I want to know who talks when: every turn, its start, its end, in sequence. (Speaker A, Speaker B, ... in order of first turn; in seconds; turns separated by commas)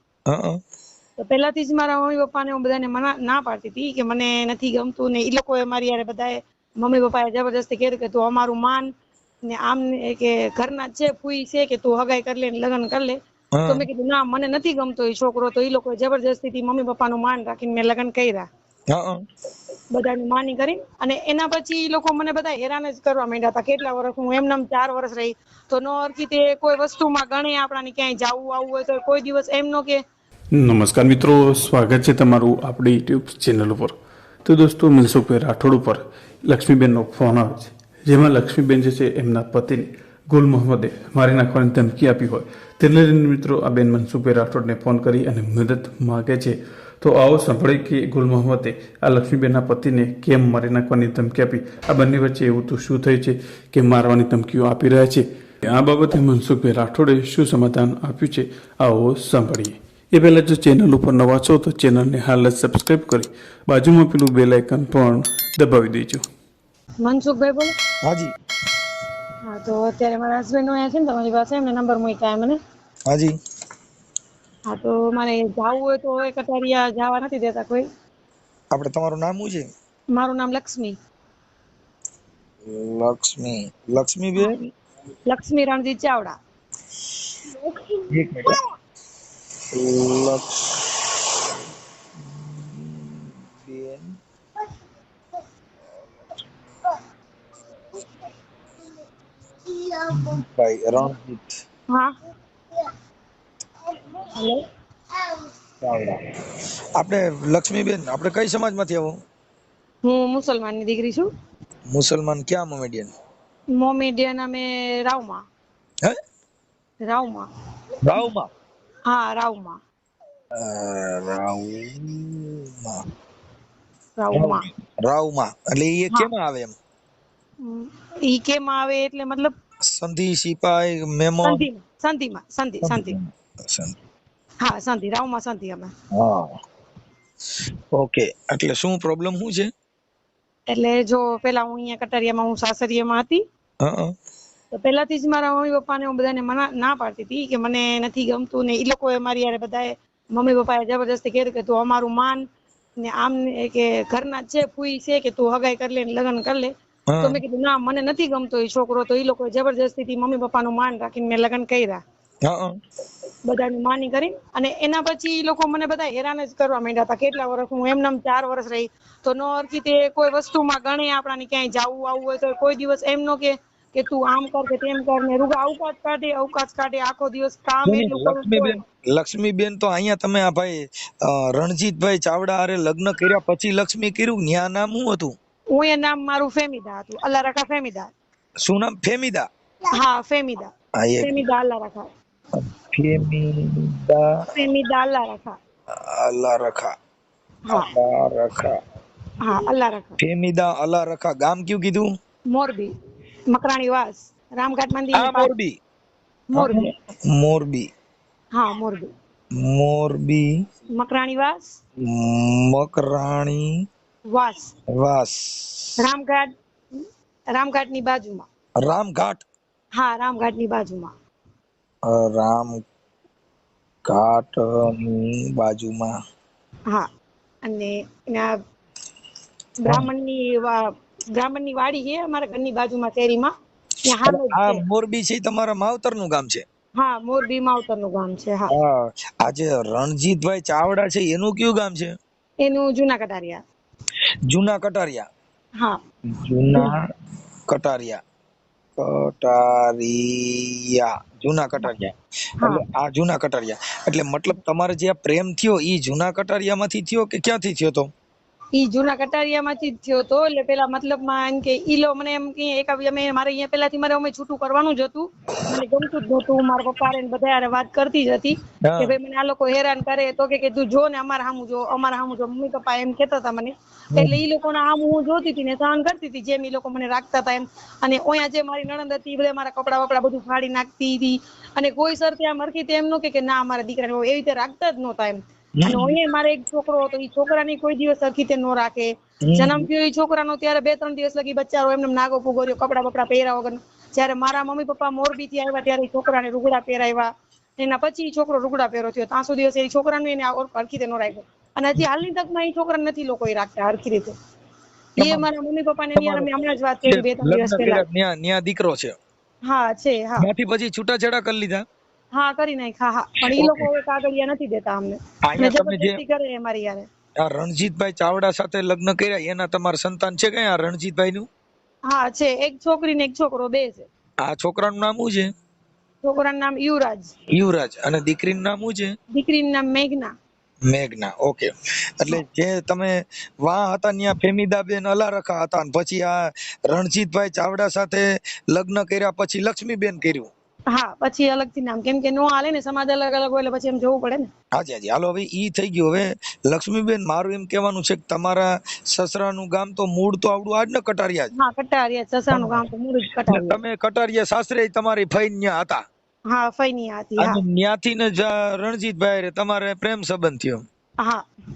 Speaker A: 0.3-0.6, Speaker B: 1.2-8.9, Speaker B: 9.5-18.5, Speaker A: 13.6-13.8, Speaker A: 18.9-19.2, Speaker B: 19.9-30.0, Speaker C: 30.5-66.2, Speaker B: 67.0-67.7, Speaker A: 68.0-68.3, Speaker B: 69.5-72.6, Speaker A: 73.1-73.3, Speaker B: 74.7-77.8, Speaker A: 78.7-79.7, Speaker B: 80.1-81.0, Speaker A: 82.7-84.7, Speaker B: 85.3-86.3, Speaker B: 87.5-88.6, Speaker A: 88.1-88.6, Speaker A: 89.7-90.8, Speaker A: 92.2-94.1, Speaker A: 100.1-101.6, Speaker B: 104.3-104.6, Speaker A: 105.8-106.2, Speaker A: 107.0-109.1, Speaker B: 110.0-111.3, Speaker A: 111.9-113.1, Speaker B: 113.7-115.4, Speaker B: 117.0-117.5, Speaker A: 118.0-118.5, Speaker B: 119.1-119.8, Speaker A: 120.5-123.0, Speaker B: 124.2-124.7, Speaker A: 124.3-126.7, Speaker B: 127.6-129.5, Speaker A: 129.9-131.6, Speaker B: 131.4-133.2, Speaker A: 132.8-134.0, Speaker B: 134.6-135.9, Speaker A: 136.1-136.5, Speaker A: 137.9-139.7, Speaker B: 140.7-143.4, Speaker A: 143.8-144.1, Speaker B: 144.7-152.4, Speaker B: 153.0-162.0, Speaker A: 157.1-157.4, Speaker A: 162.4-162.7, Speaker B: 163.4-178.8, Speaker A: 177.8-185.3, Speaker B: 185.7-188.1, Speaker A: 188.6-189.4, Speaker B: 189.9-190.7, Speaker A: 191.0-191.4, Speaker B: 191.2-192.1, Speaker A: 192.6-194.2, Speaker B: 194.5-195.6, Speaker A: 196.0-196.9, Speaker A: 197.7-198.8, Speaker B: 199.4-200.2, Speaker A: 200.2-202.1, Speaker B: 202.5-202.9, Speaker B: 203.5-205.5, Speaker A: 205.1-205.8, Speaker B: 206.5-206.9, Speaker A: 206.5-207.9, Speaker B: 208.5-209.1, Speaker A: 209.6-210.4, Speaker B: 210.9-211.7, Speaker A: 212.0-213.6, Speaker B: 214.3-214.7, Speaker A: 214.9-215.9, Speaker B: 216.0-217.0, Speaker B: 217.5-218.4, Speaker A: 218.8-219.4, Speaker B: 219.9-221.1, Speaker A: 222.1-222.8, Speaker A: 224.0-226.1, Speaker B: 227.6-228.6, Speaker B: 229.8-233.5, Speaker B: 234.0-234.8, Speaker A: 234.2-236.6, Speaker B: 237.0-238.7, Speaker A: 238.7-242.1, Speaker B: 242.6-243.6, Speaker A: 244.5-245.2, Speaker A: 246.3-246.9, Speaker A: 247.7-248.2, Speaker A: 249.0-258.1, Speaker B: 258.7-304.3, Speaker A: 268.8-269.1, Speaker A: 285.8-286.1, Speaker A: 289.4-289.9, Speaker A: 305.2-305.4, Speaker B: 305.2-308.0, Speaker A: 306.1-306.5, Speaker A: 307.0-309.1, Speaker B: 309.6-310.4, Speaker A: 310.4-311.8, Speaker B: 312.3-317.1, Speaker A: 313.5-313.9, Speaker A: 315.4-316.2, Speaker A: 317.4-321.5, Speaker B: 322.1-324.1, Speaker A: 324.4-325.5, Speaker B: 326.2-327.3, Speaker A: 327.5-329.1, Speaker B: 329.3-330.3, Speaker A: 330.9-340.5, Speaker B: 340.9-344.5, Speaker A: 344.7-351.5, Speaker B: 351.6-353.8, Speaker A: 352.5-352.8, Speaker A: 353.5-356.0, Speaker B: 356.5-357.6, Speaker A: 357.4-360.8